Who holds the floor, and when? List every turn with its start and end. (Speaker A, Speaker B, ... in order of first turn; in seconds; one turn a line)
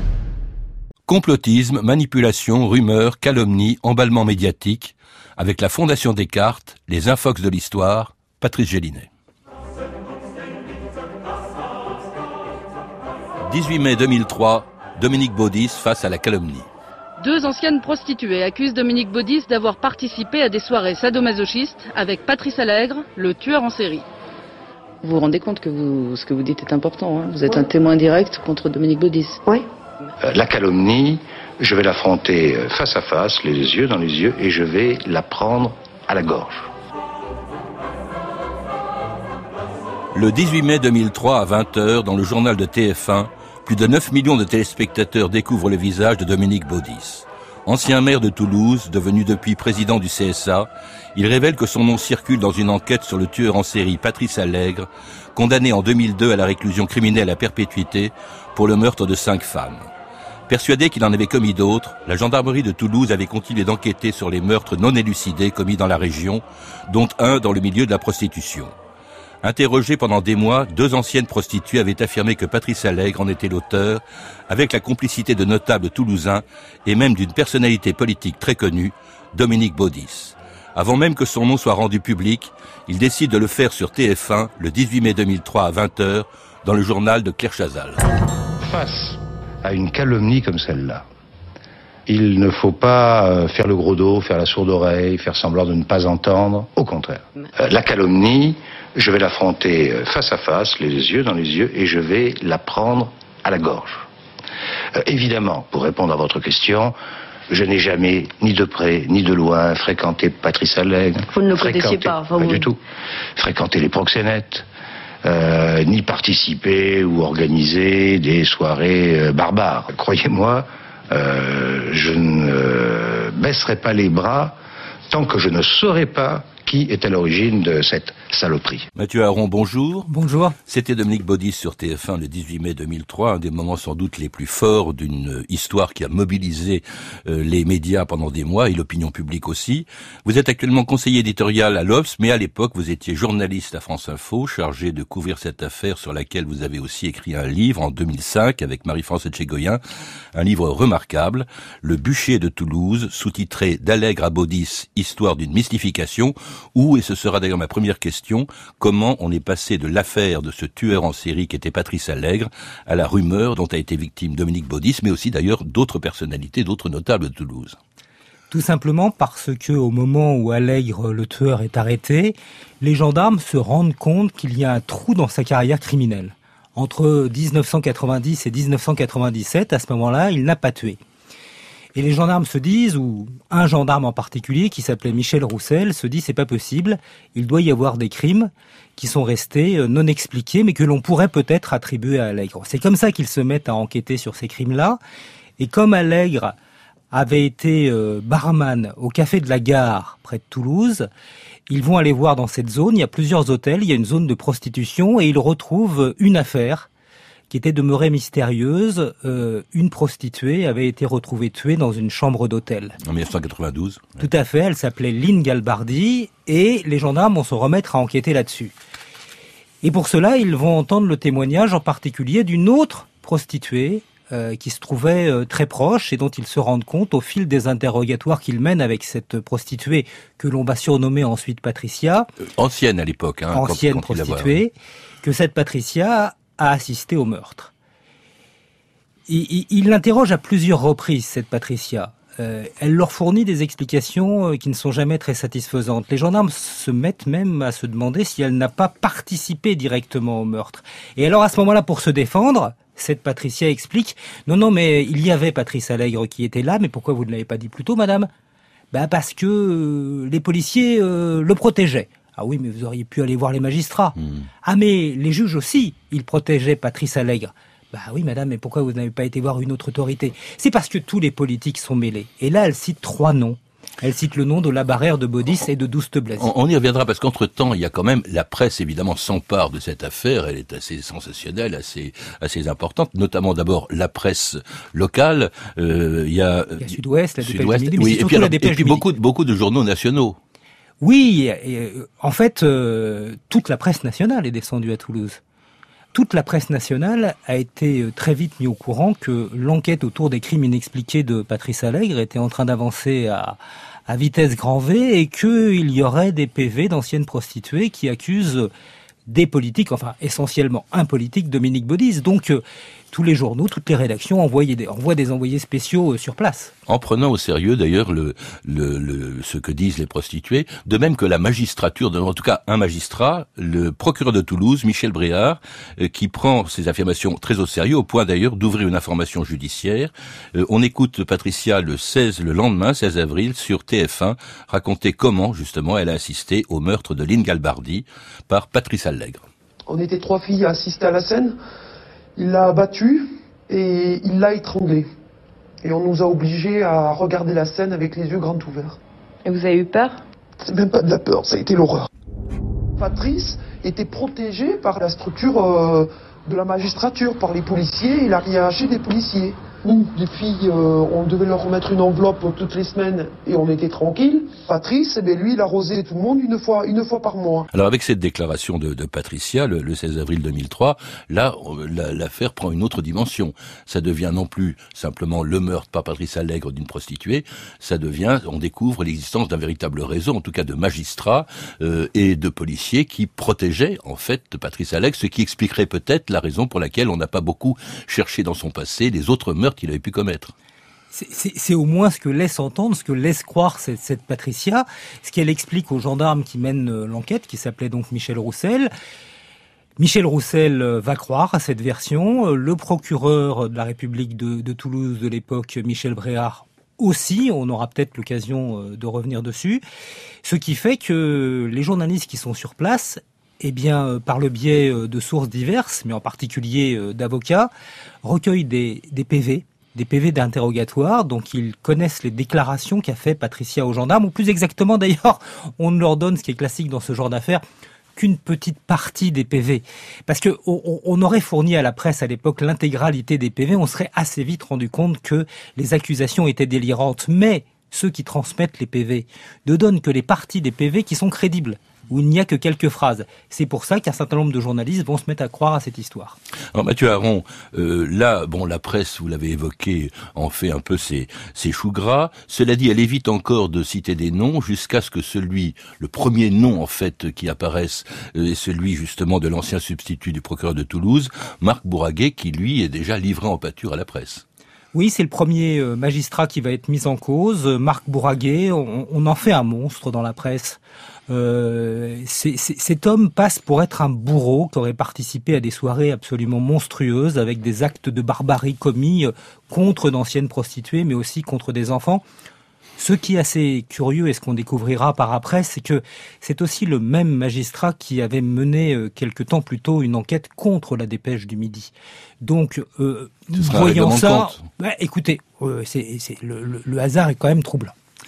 Speaker A: 1.1-9.1
Speaker A: 13.4-16.7
Speaker B: 17.2-24.0
Speaker C: 25.0-29.5
Speaker D: 30.2-36.7
Speaker A: 40.1-59.9
Speaker A: 60.5-68.7
Speaker A: 69.4-88.1
Speaker D: 88.6-91.0
Speaker D: 92.1-104.0
Speaker D: 105.0-106.9
Speaker D: 107.5-112.8
Speaker C: 111.3-112.7
Speaker D: 113.4-114.6
Speaker D: 115.2-124.5
Speaker D: 125.1-128.9
Speaker A: 128.9-130.1
Speaker E: 130.1-130.6
Speaker A: 130.7-149.8
Speaker A: 150.3-167.8
Speaker E: 168.5-181.0
Speaker E: 181.9-195.0
Speaker E: 195.6-196.6
Speaker E: 197.1-201.1
Speaker E: 201.7-206.9
Speaker E: 207.5-213.0
Speaker A: 213.0-214.2
Speaker E: 214.2-218.7
Speaker E: 219.8-232.3
Speaker A: 232.6-234.6
Speaker E: 233.5-237.7
Speaker E: 239.3-258.3
Speaker E: 258.9-276.5
Speaker A: 276.4-290.4
Speaker E: 286.8-289.0
Speaker E: 291.0-295.4
Speaker E: 296.1-308.7
Speaker E: 309.3-316.7
Speaker A: 316.9-339.4
Speaker F: 339.9-341.5
Speaker F: 342.4-345.0
Speaker F: 345.8-349.0
Speaker C: 349.4-350.2
Speaker F: 350.6-352.1
Speaker F: 353.0-367.7
Speaker A: 367.7-390.5
Speaker E: 391.1-398.9
Speaker E: 400.0-409.8
Speaker E: 410.4-417.7
Speaker E: 418.2-427.6
Speaker E: 428.1-446.4
Speaker A: 446.7-464.4
Speaker E: 464.9-482.2
Speaker E: 483.0-497.9
Speaker A: 493.6-494.6